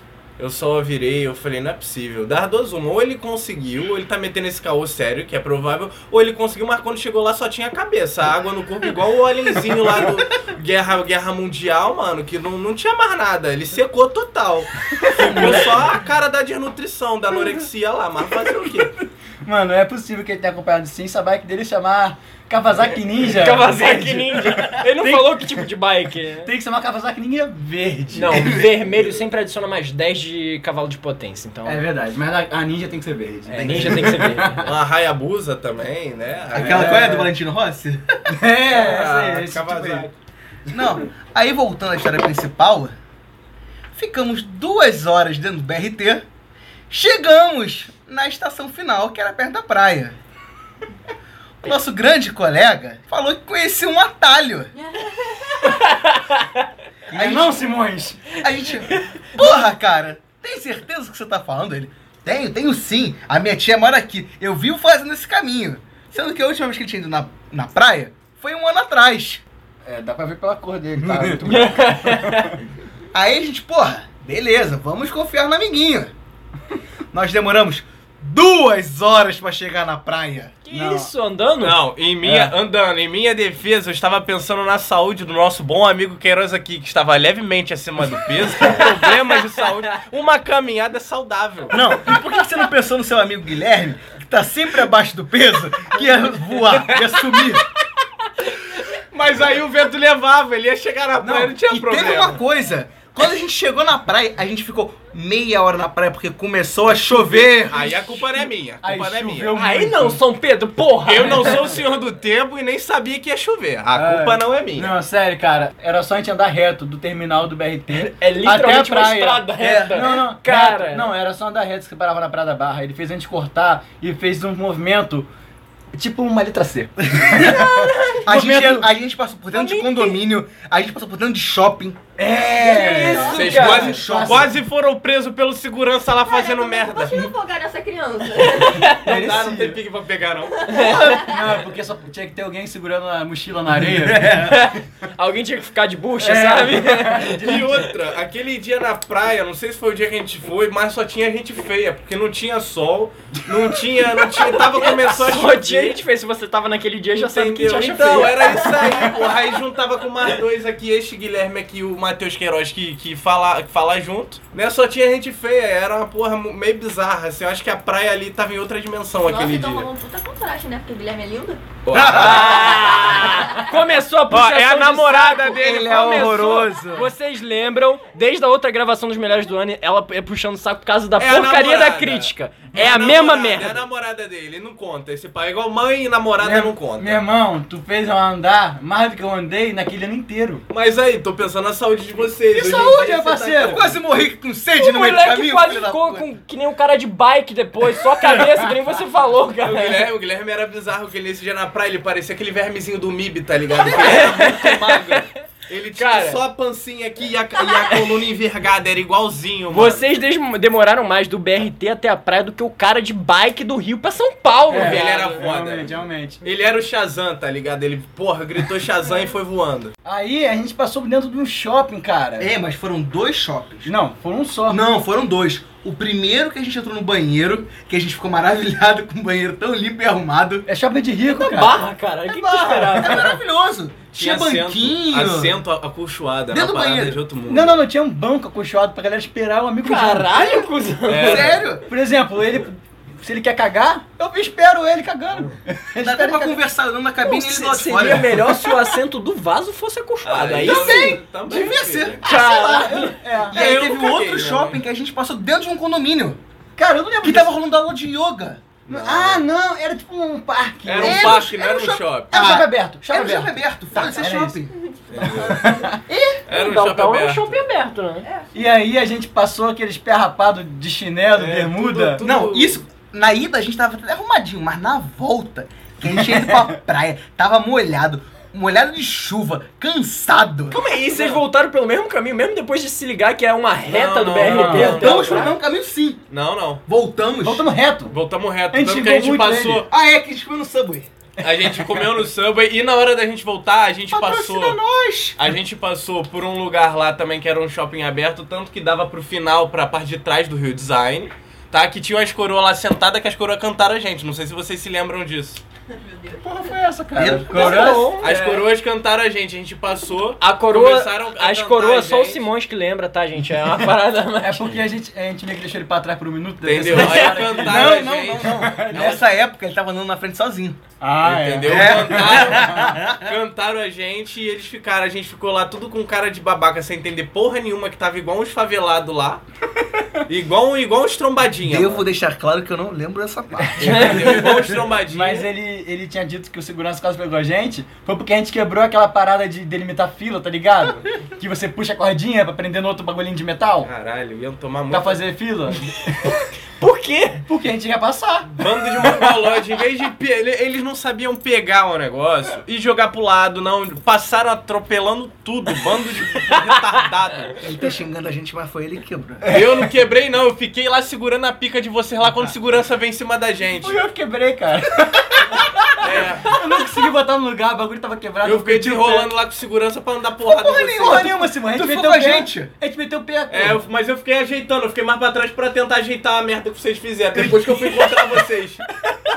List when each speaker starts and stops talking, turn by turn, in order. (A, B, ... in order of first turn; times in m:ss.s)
0:00.4-0:18.9 A
0:15.2-0:15.6 B
0:15.2-0:15.8 C
0:18.6-0:25.6 B
0:23.2-0:26.5 D
0:26.4-0:28.5 B
0:28.1-0:31.8 D
0:28.2-0:28.8 C
0:31.6-0:34.6 B
0:33.5-0:34.8 D
0:33.5-0:34.3 C
0:34.6-0:37.2 A
0:36.5-0:38.1 C
0:36.6-0:37.3 B
0:38.3-0:40.1 B
0:38.7-0:40.2 A
0:40.7-0:42.9 C
0:43.9-0:46.2 C
0:46.9-0:50.2 C
0:51.6-0:54.7 C
0:54.8-0:55.8 E
0:55.8-0:56.6 D
0:57.1-0:57.7 C
0:57.1-0:58.2 B
0:58.3-1:09.4 C
1:09.8-1:12.5 B
1:11.0-1:11.5 C
1:11.4-1:12.6 D
1:13.1-1:16.1 C
1:17.1-1:20.6 C
1:20.6-1:21.8 D
1:20.7-1:21.1 B
1:21.6-1:31.8 A
1:22.2-1:22.5 B
1:28.7-1:29.4 D
1:31.7-1:37.6 C
1:38.9-1:42.4 A
1:41.2-1:48.4 C
1:46.9-1:49.5 A
1:48.8-1:50.2 B
1:49.5-1:51.7 D
1:51.0-1:54.9 A
1:53.9-2:05.3 B
1:57.9-2:01.1 D
1:59.6-2:00.1 C
2:05.9-2:08.9 B
2:07.4-2:08.2 D
2:08.2-2:12.0 C
2:09.5-2:10.2 D
2:12.2-2:14.5 B
2:12.6-2:14.0 D
2:13.1-2:17.2 A
2:13.3-2:14.6 C
2:16.2-2:18.9 E
2:18.6-2:19.0 D
2:18.8-2:21.0 A
2:18.8-2:19.8 B
2:20.5-2:21.4 E
2:20.7-2:21.0 D
2:20.7-2:24.4 B
2:23.7-2:24.7 C
2:24.4-2:27.4 D
2:26.2-2:27.9 B
2:27.3-2:36.0 A
2:34.4-2:39.0 D
2:37.1-2:49.9 A
2:38.8-2:39.4 E
2:49.1-2:51.7 E
2:51.8-2:53.6 A
2:51.9-2:52.9 C
2:52.0-3:03.8 D
2:52.9-2:53.8 E
2:54.3-2:56.8 A
2:55.5-2:57.1 C
3:01.2-3:07.2 A
3:06.4-3:10.6 B
3:10.7-3:13.9 A
3:12.5-3:13.8 B
3:13.6-3:16.3 C
3:14.8-3:20.1 D
3:19.6-3:30.0 A
3:23.8-3:25.3 D
3:25.9-3:26.4 D
3:27.7-3:28.1 D
3:29.7-3:35.1 D
3:34.7-3:36.4 B
3:34.7-3:39.9 A
3:40.0-3:42.5 B
3:42.4-3:43.9 C
3:43.8-3:44.8 B
3:44.7-3:50.6 C
3:50.7-3:53.4 B
3:51.3-3:53.4 D
3:52.9-3:55.6 C
3:54.1-3:57.8 A
3:56.5-3:57.2 C
3:57.5-4:00.7 B
3:59.8-4:01.6 D
4:01.0-4:01.6 A
4:01.2-4:01.8 C
4:01.8-4:06.6 B
4:06.0-4:08.6 C
4:07.2-4:11.2 D
4:08.3-4:08.7 B
4:10.2-4:12.3 A
4:10.6-4:12.2 C
4:12.2-4:13.2 D
4:12.2-4:13.6 B
4:13.5-4:16.4 C
4:13.5-4:14.8 A
4:16.8-4:17.6 B
4:17.2-4:18.6 C
4:18.8-4:19.4 A
4:18.9-4:21.4 B
4:20.8-4:22.3 A
4:21.0-4:24.8 C
4:22.3-4:23.6 B
4:24.0-4:24.2 E
4:24.1-4:24.6 B
4:24.8-4:26.0 E
4:25.1-4:25.7 A
4:25.2-4:26.0 B
4:26.1-4:26.4 C
4:26.5-4:27.6 A
4:26.5-4:28.3 D
4:28.5-4:32.2 B
4:31.3-4:32.8 A
4:32.2-4:40.8 C
4:36.1-4:36.8 B
4:40.7-4:45.5 D
4:41.1-4:41.4 A
4:43.9-4:45.5 A
4:44.4-4:45.0 B
4:44.7-4:46.2 C
4:46.3-4:46.8 A
4:46.9-4:47.6 C
4:47.4-4:48.1 B
4:48.1-4:49.9 A
4:48.7-4:49.8 B
4:49.9-4:51.1 C
4:51.4-4:54.8 A
4:51.4-4:52.1 B
4:54.1-4:55.4 C
4:55.4-5:05.6 A
5:05.9-5:06.4 E
5:06.4-5:08.6 B
5:07.2-5:08.1 C
5:07.5-5:12.4 A
5:07.5-5:08.3 D
5:10.4-5:14.8 D
5:14.4-5:19.2 B
5:16.6-5:19.0 A
5:17.1-5:20.8 C
5:21.0-5:23.0 B
5:21.2-5:29.4 A
5:21.6-5:23.4 C
5:30.2-5:32.0 A
5:31.6-5:34.2 C
5:33.6-5:34.5 B
5:33.8-5:35.5 A
5:33.9-5:34.2 D
5:35.1-5:43.9 B
5:43.8-5:45.2 A
5:44.9-5:45.9 B
5:46.8-5:47.4 D
5:47.5-5:49.5 B
5:48.5-5:57.5 A
5:57.6-5:59.4 C
5:59.4-5:59.8 B
5:59.5-6:04.0 A
6:03.8-6:09.3 B
6:06.0-6:06.5 A
6:08.4-6:11.3 A
6:10.4-6:12.7 C
6:11.0-6:13.8 B
6:13.5-6:18.8 A